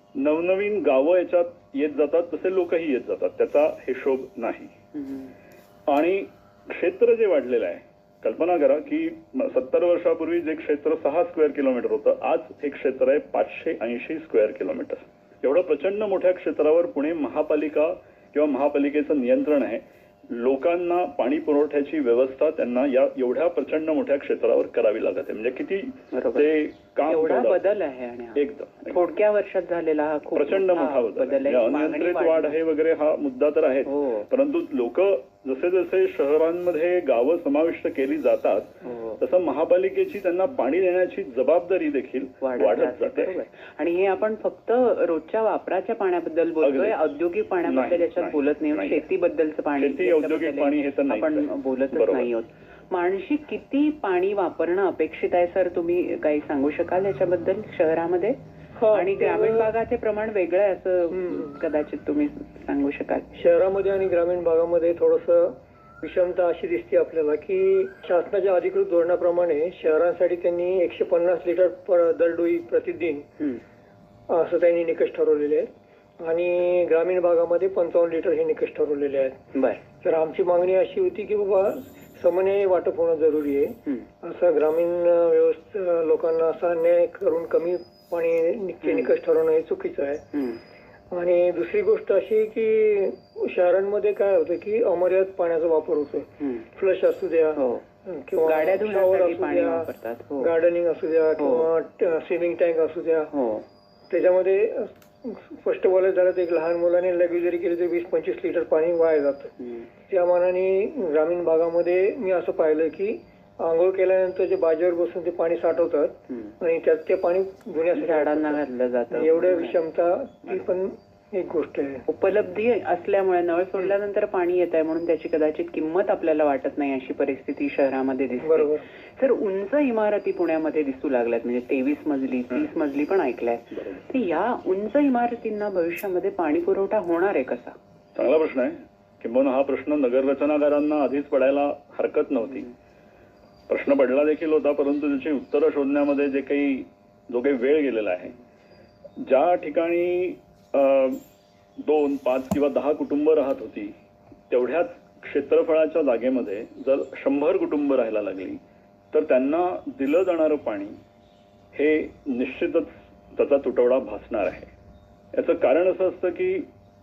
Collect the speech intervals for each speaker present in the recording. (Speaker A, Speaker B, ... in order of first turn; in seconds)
Speaker A: 0.1-4.7, 5.9-27.6, 28.4-28.9, 30.4-43.4, 46.6-47.0, 47.7-49.0, 49.8-52.3, 138.2-142.7, 143.7-148.3, 149.2-151.2, 151.8-153.9, 154.5-158.6, 159.1-161.0, 161.7-164.7, 165.3-166.7
Speaker B: 5.0-5.3, 26.1-26.5, 27.1-32.6, 33.9-34.2, 38.9-39.2, 42.4-58.4, 58.9-63.3, 79.5-79.8, 88.8-89.1, 90.3-90.6, 97.6-97.8, 98.4-100.5, 101.4-101.7, 103.3-103.7, 117.9-119.8, 122.1-137.8
Speaker C: 58.8-59.7, 61.1-61.5, 63.3-73.3, 74.3-79.4, 80.0-90.2, 91.1-103.3, 104.1-109.5, 110.1-118.6, 119.1-122.0, 128.4-128.8